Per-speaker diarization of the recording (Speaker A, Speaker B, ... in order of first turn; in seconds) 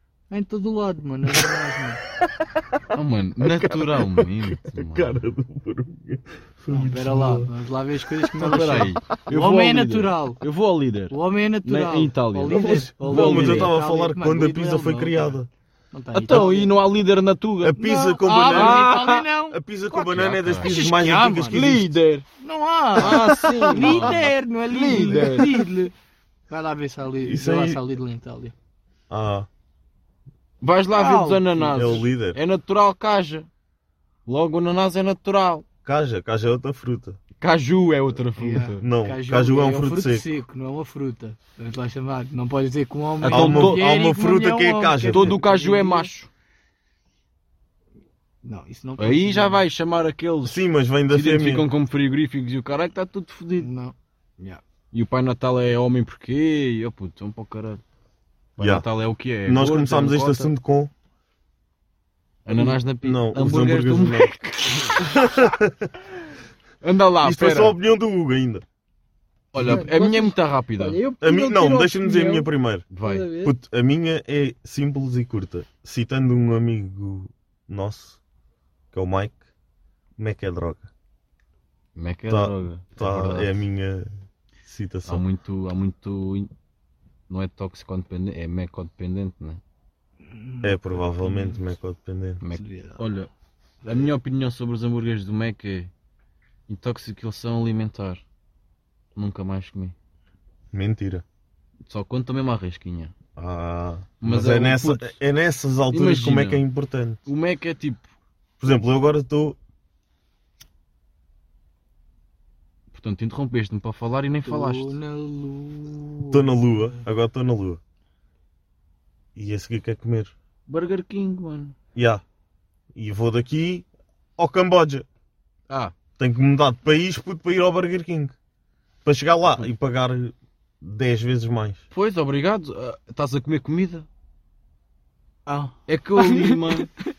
Speaker A: 0.3-2.0, 6.7-10.4, 11.1-15.4, 15.9-16.8, 17.8-19.6, 20.6-21.6, 22.4-25.9, 26.5-28.5, 30.9-32.1, 38.4-46.1, 48.4-49.6, 53.6-54.6, 69.5-72.5, 73.0-73.6, 90.2-91.6, 92.5-93.0, 114.5-116.7, 135.5-136.9
Speaker B: 2.9-5.2, 8.4-13.7, 16.1-17.8, 18.5-19.2, 19.9-20.8, 21.5-22.3, 23.0-25.6, 30.6-33.5, 34.3-35.6, 37.4-38.9, 43.2-43.8, 45.1-46.3, 49.0-53.7, 54.9-57.8, 58.6-60.5, 62.5-65.1, 66.8-67.8, 69.5-71.0, 72.9-73.3, 82.0-83.6, 85.1-86.5, 87.3-89.6, 92.4-93.3, 93.8-95.9, 96.7-98.2, 99.2-100.0, 101.9-103.1, 104.2-105.2, 105.9-106.7, 107.3-108.1, 112.9-115.0, 120.7-121.8, 131.9-134.1, 135.9-136.9
Speaker C: 3.4-7.5, 8.0-8.6, 12.5-15.5, 17.6-22.0, 23.0-24.2, 27.2-27.8, 29.1-29.5, 31.7-32.4, 35.9-37.2, 38.8-40.3, 43.3-45.4, 50.5-51.7, 58.6-58.9, 59.5-60.9, 62.5-64.3, 64.9-65.9, 67.2-68.7, 69.5-69.8, 71.2-72.9, 73.4-78.2, 78.9-79.4, 80.2-80.9, 82.3-84.1, 84.7-85.2, 90.6-92.4, 100.7-101.2, 103.4-107.2, 108.6-109.6, 116.3-117.8, 119.4-120.3, 122.0-122.2, 123.0-123.9, 124.4-125.1, 126.2-128.3, 129.1-131.8